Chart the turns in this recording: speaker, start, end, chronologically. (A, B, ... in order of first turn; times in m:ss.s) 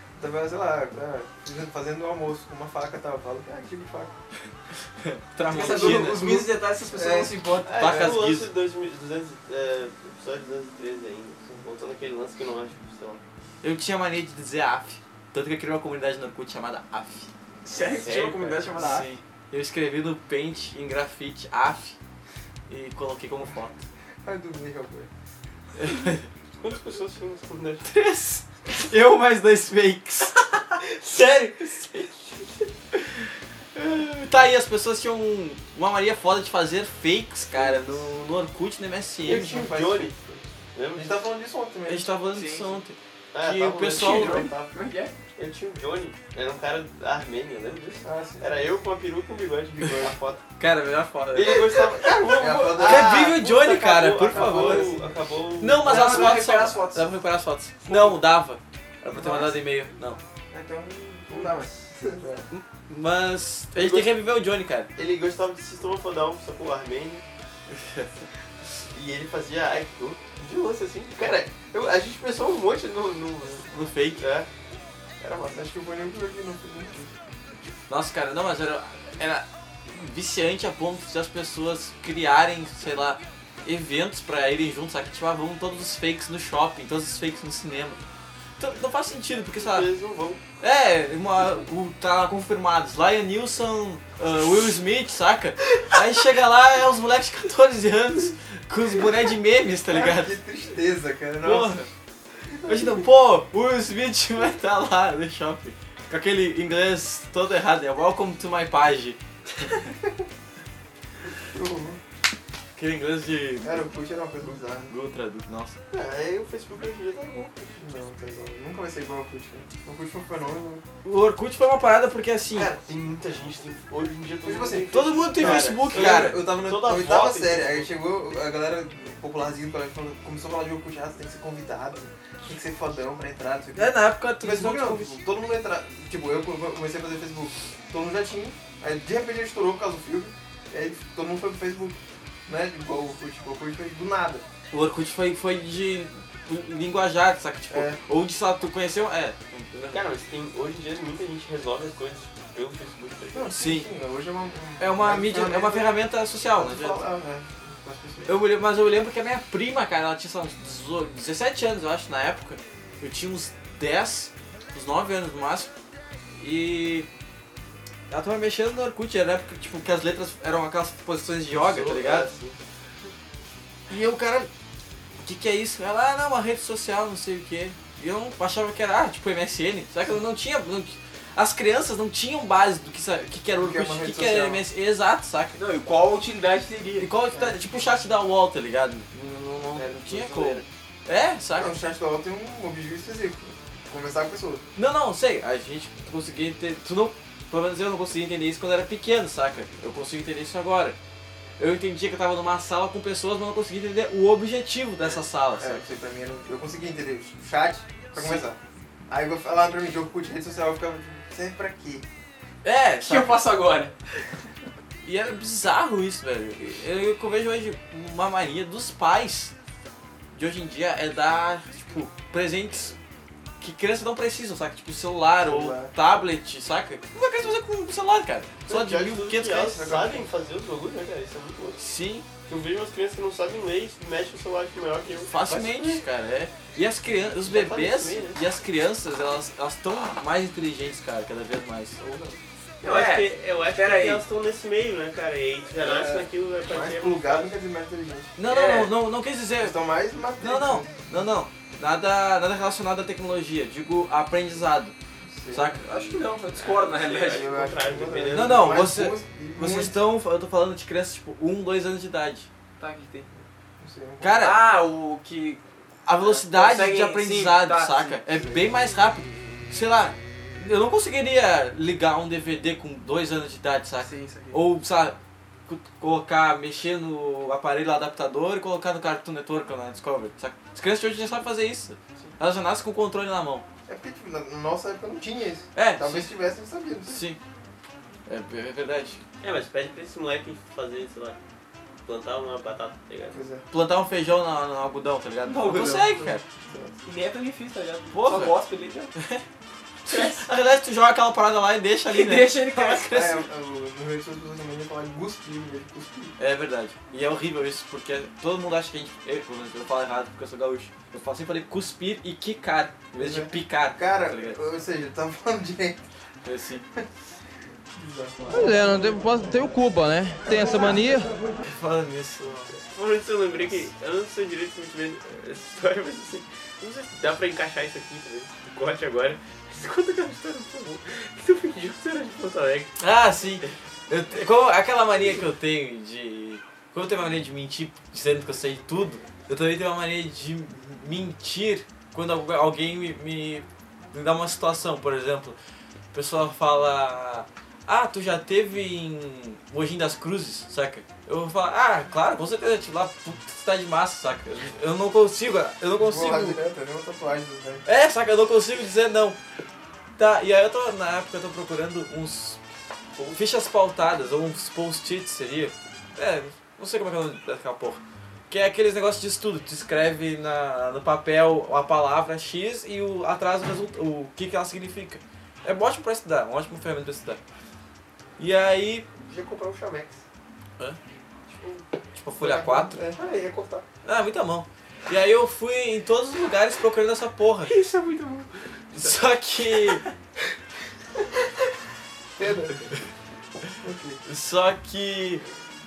0:00.2-0:04.1 A
0:05.0-0:06.3 B
0:05.5-0:08.1 C
0:05.6-0:07.4 A
0:07.6-0:13.2 D
0:07.7-0:08.5 B
0:13.6-0:17.3 B
0:17.6-0:19.1 C
0:17.8-0:18.8 D
0:18.8-0:22.0 B
0:22.7-0:23.8 B
0:24.2-0:25.1 A
0:25.8-0:26.2 B
0:26.6-0:27.9 D
0:27.8-0:30.6 B
0:31.0-0:32.4 D
0:33.8-0:39.8 B
0:37.6-0:37.8 A
0:39.2-0:40.2 D
0:39.3-0:42.1 A
0:40.8-0:41.2 D
0:41.9-0:44.5 B
0:42.3-0:42.8 C
0:43.3-0:44.8 D
0:43.9-0:45.1 C
0:45.4-0:50.4 D
0:48.0-0:48.4 A
0:49.8-0:50.1 A
0:50.6-0:51.8 B
0:51.3-0:56.3 D
0:52.3-0:53.3 A
0:52.7-0:55.0 B
0:54.3-0:55.0 A
0:55.6-1:00.2 B
0:55.8-0:57.1 C
0:59.2-0:59.5 A
1:00.5-1:02.4 A
1:02.5-1:04.9 B
1:03.8-1:04.1 D
1:05.0-1:07.2 D
1:07.7-1:08.1 B
1:08.9-1:14.5 D
1:13.7-1:14.2 B
1:15.4-1:17.1 A
1:17.9-1:28.0 B
1:28.6-1:29.9 B
1:29.6-1:30.4 D
1:30.6-1:40.4 B
1:39.9-1:41.7 A
1:41.4-1:41.9 B
1:42.6-1:49.2 B
1:51.6-1:52.0 A
1:52.8-1:53.8 B
1:53.6-1:54.9 A
1:54.9-1:55.8 B
1:55.9-1:57.7 D
1:57.8-2:00.8 A
2:01.0-2:02.7 B
2:02.5-2:07.9 D
2:04.4-2:24.4 A
2:04.9-2:06.5 B
2:13.8-2:15.2 B
2:24.7-2:30.0 B
2:27.7-2:28.0 A
2:29.9-2:33.5 D
2:33.3-2:35.8 A
2:33.5-2:33.9 B
2:34.8-2:37.0 B
2:36.6-2:38.3 A
2:38.3-2:45.7 B
2:46.4-2:47.1 B
2:48.1-2:52.3 B
2:51.5-2:52.6 D
2:53.9-2:54.5 B
2:55.2-3:05.6 B
3:03.6-3:04.6 A
3:05.6-3:07.1 C
3:07.0-3:11.8 B
3:09.8-3:10.7 D
3:11.6-3:14.6 A
3:14.8-3:21.0 B
3:21.6-3:25.8 B
3:25.6-3:28.6 A
3:28.1-3:28.5 B
3:29.1-3:32.0 A
3:32.6-3:33.4 B
3:33.0-3:34.0 C
3:35.0-3:39.5 B
3:40.3-3:43.0 B
3:43.6-3:49.8 B
3:45.5-3:45.9 A
3:48.7-3:51.8 D
3:49.8-3:50.2 A
3:51.8-3:52.3 B
3:52.5-3:56.0 D
3:55.2-4:02.0 B
3:57.4-3:58.4 D
4:02.0-4:02.4 A
4:02.8-4:04.2 C
4:02.8-4:07.5 D
4:05.8-4:08.3 A
4:08.4-4:09.8 B
4:08.5-4:08.9 C
4:09.6-4:10.9 A
4:10.4-4:15.0 B
4:15.3-4:15.6 A
4:15.5-4:16.3 B
4:15.8-4:17.5 C
4:16.5-4:18.7 D
4:17.3-4:20.0 A
4:18.3-4:22.5 B
4:22.8-4:23.3 C
4:23.8-4:24.4 A
4:24.2-4:24.6 B
4:24.4-4:25.6 C
4:26.0-4:43.7 B
4:26.2-4:28.2 C
4:34.0-4:34.6 C
4:43.9-4:47.2 A
4:45.8-4:46.3 B
4:47.1-4:47.4 B
4:48.3-4:49.2 B
4:49.4-4:51.4 D
4:52.0-4:53.4 D
4:53.3-4:53.6 A
4:53.7-4:56.5 B
4:55.4-4:56.4 C
4:56.6-4:57.0 A
4:57.0-4:59.1 C
4:58.1-4:58.6 B
4:59.2-4:59.4 B
5:00.1-5:03.5 B
5:00.1-5:00.5 C
5:02.1-5:03.2 C
5:03.1-5:06.4 A
5:06.4-5:14.6 B
5:13.2-5:16.0 A
5:16.4-5:16.8 B
5:18.0-5:18.8 A
5:18.5-5:21.3 E
5:21.7-5:22.8 B
5:22.9-5:32.9 D
5:33.0-5:45.6 B
5:46.1-5:56.6 B
5:56.0-5:57.8 A
5:57.9-5:59.4 B
6:00.2-6:02.6 B
6:03.3-6:17.4 B
6:18.4-6:19.1 B
6:19.2-6:20.2 D
6:21.5-6:21.9 D
6:22.2-6:23.0 B
6:22.4-6:23.1 A
6:23.0-6:23.8 D
6:24.0-6:27.7 B
6:27.7-6:29.2 D
6:28.9-6:30.0 B
6:32.4-6:32.8 A
6:33.8-6:34.2 A
6:34.2-6:35.4 B